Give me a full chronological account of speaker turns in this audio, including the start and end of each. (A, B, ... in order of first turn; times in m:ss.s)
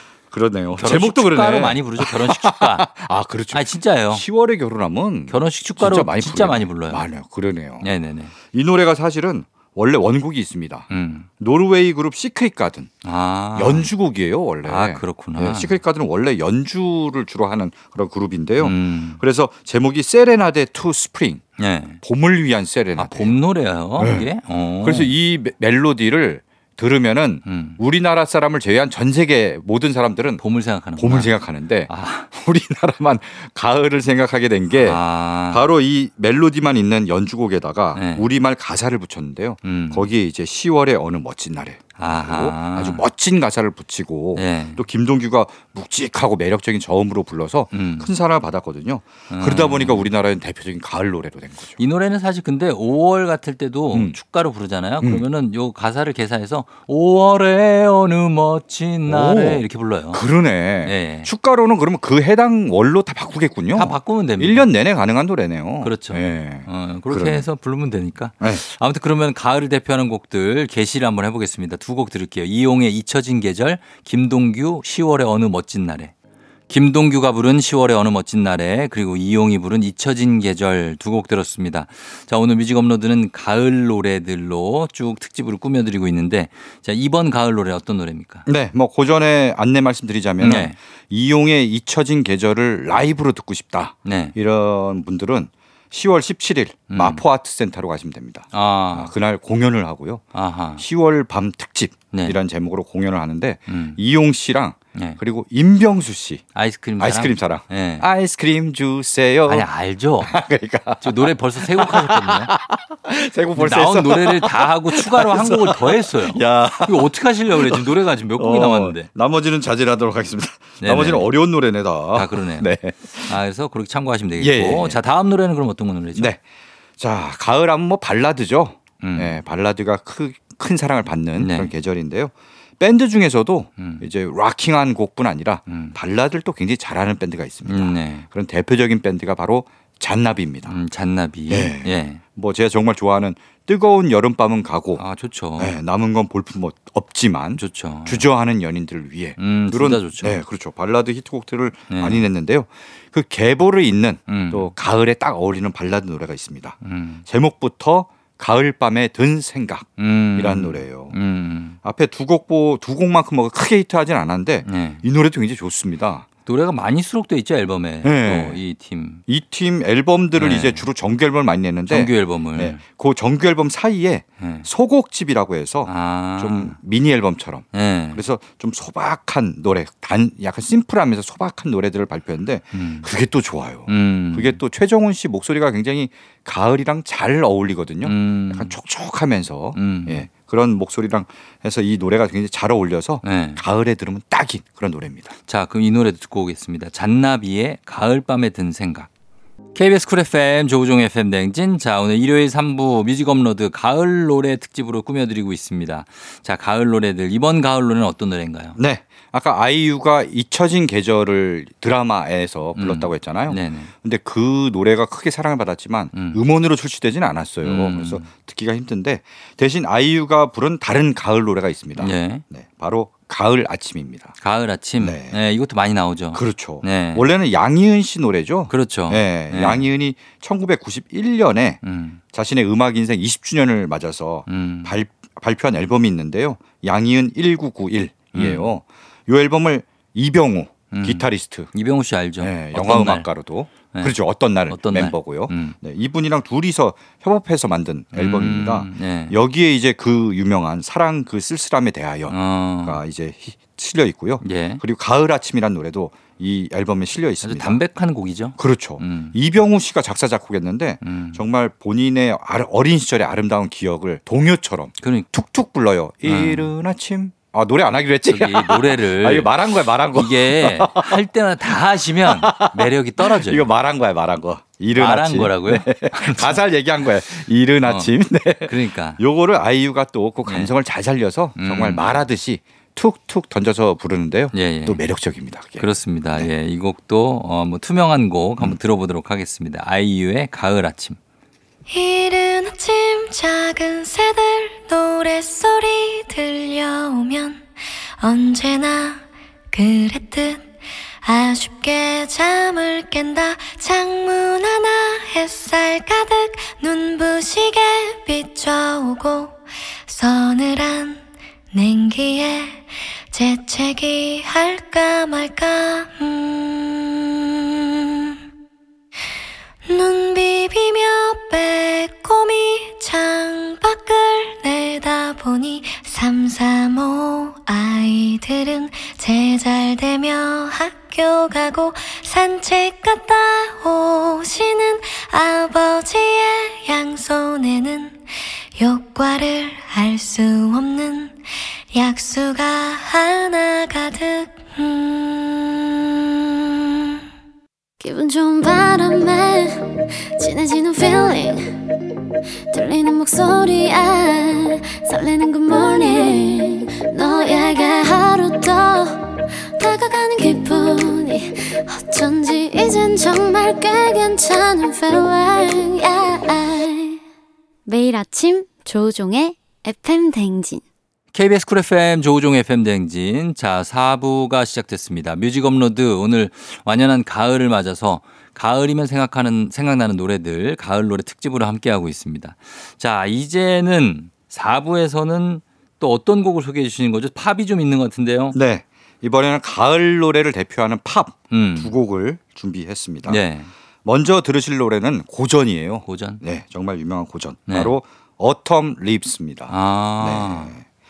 0:00.3-0:07.9 A
0:00.7-0:02.9 B
0:03.5-0:04.2 B
0:05.3-0:07.0 B
0:07.8-0:08.3 B
0:08.5-0:12.9 A
0:10.9-0:11.3 B
0:13.0-0:13.9 B
0:13.5-0:21.4 A
0:14.6-0:15.8 B
0:18.6-0:19.2 B
0:21.6-0:22.0 B
0:22.0-0:23.3 A
0:23.0-0:25.1 B
0:24.0-0:24.3 A
0:24.8-0:30.4 A
0:27.4-0:27.8 B
0:30.4-0:31.3 B
0:31.0-0:51.8 A
0:31.9-0:32.3 B
0:34.7-0:35.6 B
0:37.9-0:38.3 B
0:39.6-0:40.1 B
0:42.0-0:43.0 B
0:44.4-0:44.8 B
0:47.7-0:48.1 B
0:49.3-0:50.1 B
0:51.8-1:00.2 B
0:59.0-1:07.4 A
1:00.8-1:01.3 B
1:03.7-1:04.6 B
1:05.8-1:16.1 B
1:16.7-1:28.4 B
1:28.4-1:40.2 A
1:30.4-1:30.8 B
1:34.0-1:34.3 B
1:36.9-1:37.2 B
1:38.5-1:39.1 B
1:40.3-1:40.8 B
1:40.8-1:46.4 A
1:42.1-1:42.4 B
1:43.7-1:44.0 B
1:44.9-1:45.2 B
1:46.5-1:48.1 B
1:47.0-1:49.7 A
1:49.5-1:50.4 B
1:50.2-2:03.4 A
1:51.0-1:52.5 B
1:53.6-1:59.1 B
2:00.8-2:01.3 B
2:02.1-2:02.7 B
2:03.3-2:06.3 B
2:04.4-2:05.0 A
2:06.1-2:06.4 A
2:07.0-2:20.8 A
2:09.0-2:09.4 B
2:11.4-2:11.7 B
2:13.8-2:14.0 B
2:15.7-2:16.0 B
2:17.6-2:18.2 B
2:20.6-2:22.2 B
2:21.5-2:25.0 A
2:25.0-2:25.7 B
2:25.6-2:41.1 A
2:27.6-2:28.3 B
2:29.4-2:30.4 B
2:31.9-2:32.2 B
2:34.3-2:34.7 B
2:36.8-2:37.2 B
2:40.0-2:41.8 B
2:41.8-2:46.2 A
2:44.6-2:45.0 B
2:46.4-2:49.2 B
2:48.0-2:48.6 A
2:49.3-3:15.3 A
2:50.4-2:50.8 B
2:51.9-2:52.8 B
2:54.4-2:54.6 B
2:55.8-2:56.8 B
2:57.7-2:58.2 B
3:02.7-3:03.1 B
3:03.9-3:04.6 B
3:08.0-3:08.7 B
3:09.7-3:10.3 B
3:13.2-3:13.6 B
3:15.5-3:19.1 B
3:19.7-3:28.8 B
3:28.8-3:44.3 A
3:32.8-3:33.9 B
3:36.1-3:36.4 B
3:37.6-3:38.3 B
3:42.0-3:42.4 B
3:44.4-3:47.2 B
3:45.0-3:45.4 A
3:46.3-3:51.8 A
3:48.7-3:49.9 B
3:51.8-3:52.2 B
3:52.3-4:01.7 A
3:54.5-3:54.9 B
3:58.3-3:58.7 B
4:00.9-4:03.3 B
4:02.4-4:17.8 A
4:04.7-4:05.8 B
4:08.1-4:09.4 B
4:12.3-4:13.0 B
4:14.4-4:14.8 B
4:17.4-4:19.4 B
4:18.6-4:31.2 A
4:21.0-4:21.4 B
4:25.0-4:25.3 B
4:26.2-4:26.7 B
4:28.3-4:33.6 B
4:32.2-4:46.5 A
4:34.9-4:36.6 B
4:37.8-4:38.1 B
4:38.6-4:39.2 B
4:40.4-4:40.7 B
4:41.6-4:42.2 B
4:44.5-4:45.0 B
4:45.8-4:51.2 B
4:51.9-4:57.7 C
4:58.2-5:00.7 C
5:01.2-5:18.3 C
5:19.8-5:38.2 C
5:38.8-5:41.4 C
5:41.9-5:46.8 C
5:48.0-5:49.8 D
5:50.4-5:51.7 D
5:52.7-5:59.2 D
5:59.8-6:07.1 D
6:07.8-6:10.8 D
6:11.3-6:28.6 B
6:28.5-6:33.4 A
6:31.5-6:31.9 B
6:33.2-6:33.7 B
6:34.0-6:40.8 A
6:36.0-6:36.4 B
6:37.7-6:37.9 B
6:39.7-6:40.7 B